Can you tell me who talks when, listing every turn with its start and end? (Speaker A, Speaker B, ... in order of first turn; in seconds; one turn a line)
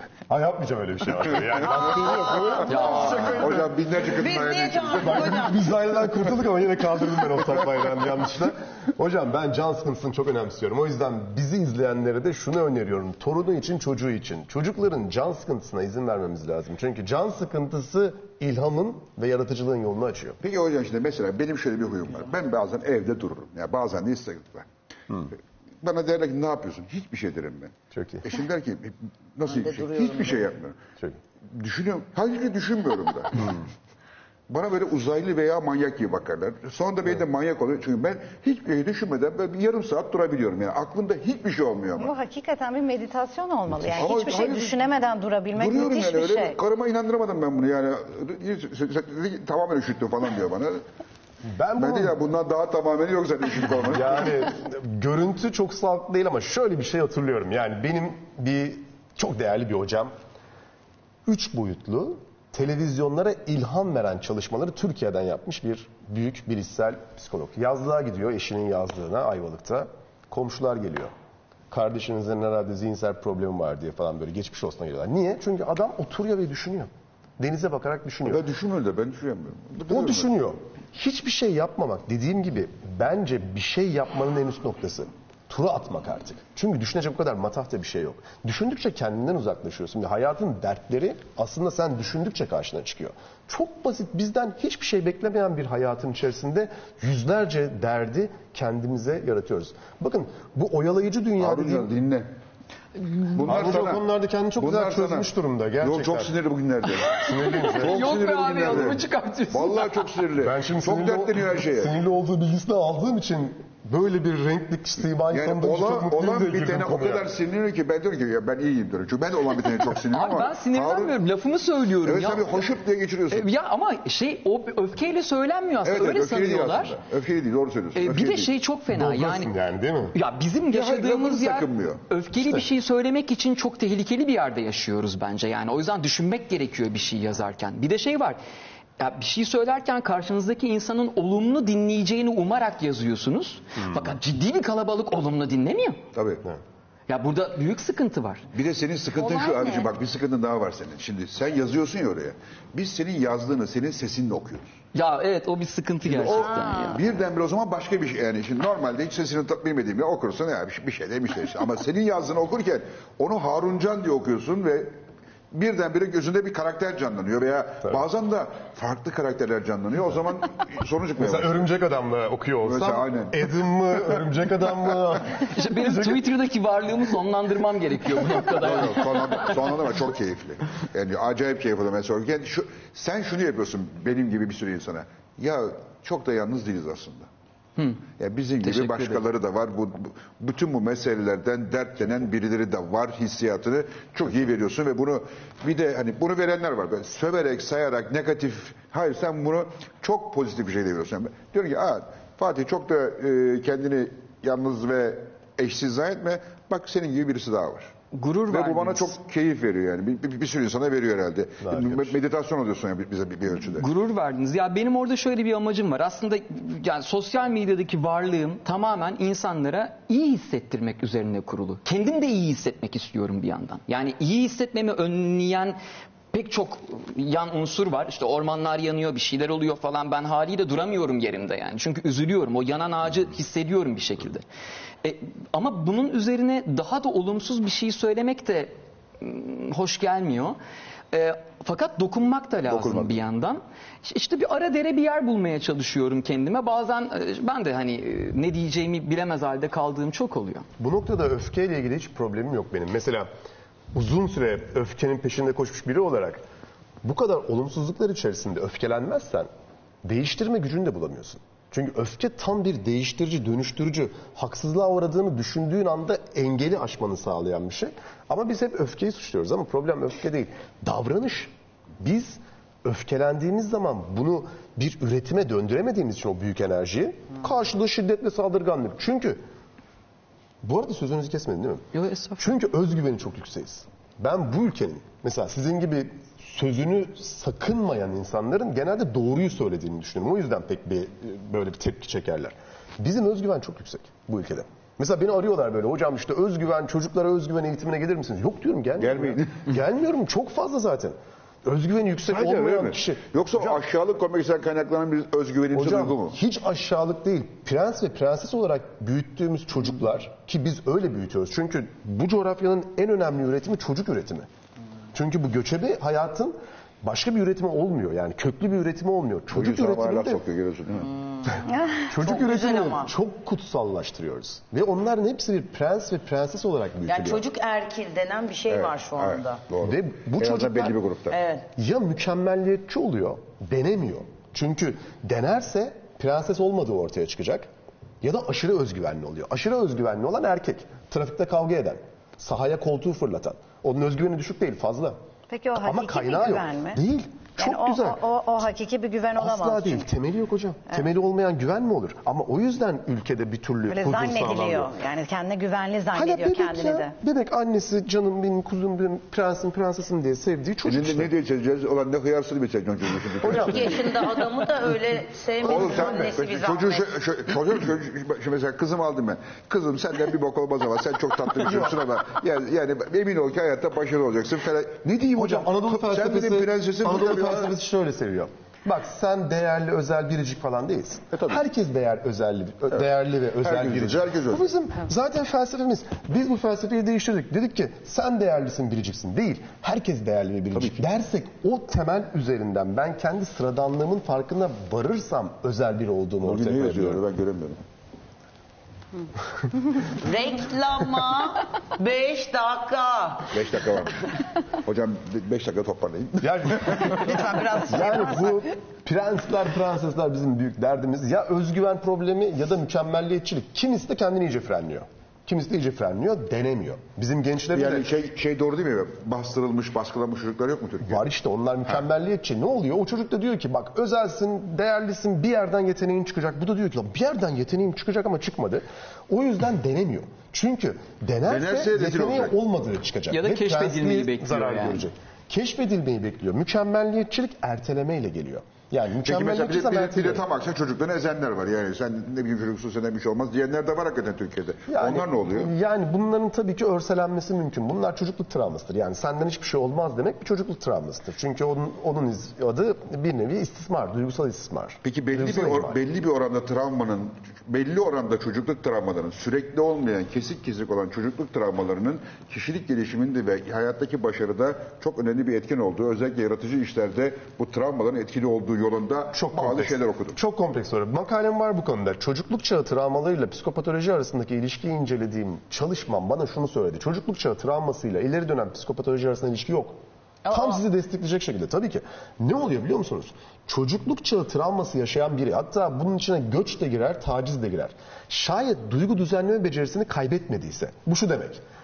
Speaker A: 0.3-3.8
Speaker B: 1.9-3.3
Speaker C: 2.6-5.4
Speaker D: 2.7-3.4
Speaker B: 4.1-5.7
Speaker A: 5.0-20.4
Speaker C: 20.4-24.7
Speaker C: 25.8-30.9
Speaker A: 27.9-28.2
Speaker B: 29.5-30.4
Speaker C: 31.4-33.5
Speaker C: 34.5-42.1
Speaker E: 42.0-46.6
Speaker C: 44.0-44.8
Speaker C: 45.5-50.9
Speaker A: 51.5-52.2
Speaker C: 51.8-54.3
Speaker A: 53.9-60.1
Speaker A: 61.3-71.1
Speaker A: 71.7-78.4
Speaker C: 78.3-80.3
Speaker A: 79.9-101.9
Speaker C: 101.4-102.3
Speaker C: 103.3-104.1
Speaker A: 103.4-106.3
Speaker C: 104.6-105.3
Speaker C: 105.8-107.3
Speaker A: 107.1-109.0
Speaker D: 107.2-110.1
Speaker C: 107.8-111.9
Speaker A: 110.4-117.3
Speaker C: 115.3-121.2
Speaker D: 120.1-122.7
Speaker C: 122.0-123.5
Speaker D: 123.3-127.0
Speaker C: 125.8-128.5
Speaker D: 128.0-129.5
Speaker A: 128.9-130.1
Speaker D: 130.2-138.4
Speaker C: 130.7-132.0
Speaker D: 139.0-146.0
Speaker C: 146.1-146.4
Speaker D: 147.1-148.5
Speaker C: 148.5-154.7
Speaker B: 149.2-149.9
Speaker D: 154.9-156.9
Speaker C: 156.1-164.9
Speaker C: 165.5-171.6
Speaker A: 171.2-176.2
Speaker C: 172.6-174.2
Speaker D: 175.4-179.7
Speaker C: 178.6-187.3
Speaker C: 188.2-207.9
Speaker D: 188.6-189.2
Speaker D: 208.1-209.1
Speaker C: 208.5-213.9
Speaker A: 211.6-212.1
Speaker D: 213.8-225.8
Speaker D: 226.3-234.4
Speaker D: 235.0-240.6
Speaker D: 241.1-250.7
Speaker C: 242.7-243.2
Speaker A: 250.8-253.3
Speaker A: 253.9-256.4
Speaker A: 257.0-259.5
Speaker A: 260.0-279.4
Speaker A: 280.6-281.9
Speaker D: 281.9-282.4
Speaker A: 282.4-303.8
Speaker C: 299.0-299.7
Speaker C: 302.3-306.4
Speaker A: 305.8-314.5
Speaker A: 315.1-320.4
Speaker C: 319.5-321.1
Speaker B: 321.5-323.1
Speaker A: 322.1-327.4
Speaker B: 327.1-329.6
Speaker C: 328.7-331.4
Speaker A: 329.8-330.9
Speaker B: 331.3-331.7
Speaker A: 331.8-337.7
Speaker A: 338.2-345.2
Speaker E: 345.5-347.0
Speaker A: 345.8-348.2
Speaker E: 347.6-350.1
Speaker A: 349.4-354.9
Speaker E: 353.9-357.1
Speaker A: 356.1-361.3
Speaker C: 360.9-364.1
Speaker A: 363.4-363.8
Speaker B: 363.6-367.1
Speaker C: 365.6-377.7
Speaker A: 375.3-397.2
Speaker C: 381.3-381.6
Speaker C: 383.6-384.6
Speaker C: 396.4-397.8
Speaker B: 400.1-403.5
Speaker C: 403.5-407.3
Speaker A: 406.4-418.1
Speaker B: 406.9-408.7
Speaker C: 417.7-421.2
Speaker A: 421.1-440.4
Speaker C: 431.4-432.6
Speaker D: 433.3-435.1
Speaker C: 439.2-445.7
Speaker A: 444.9-456.0
Speaker C: 455.0-470.4
Speaker A: 469.3-480.0
Speaker B: 480.4-480.8
Speaker A: 480.5-491.6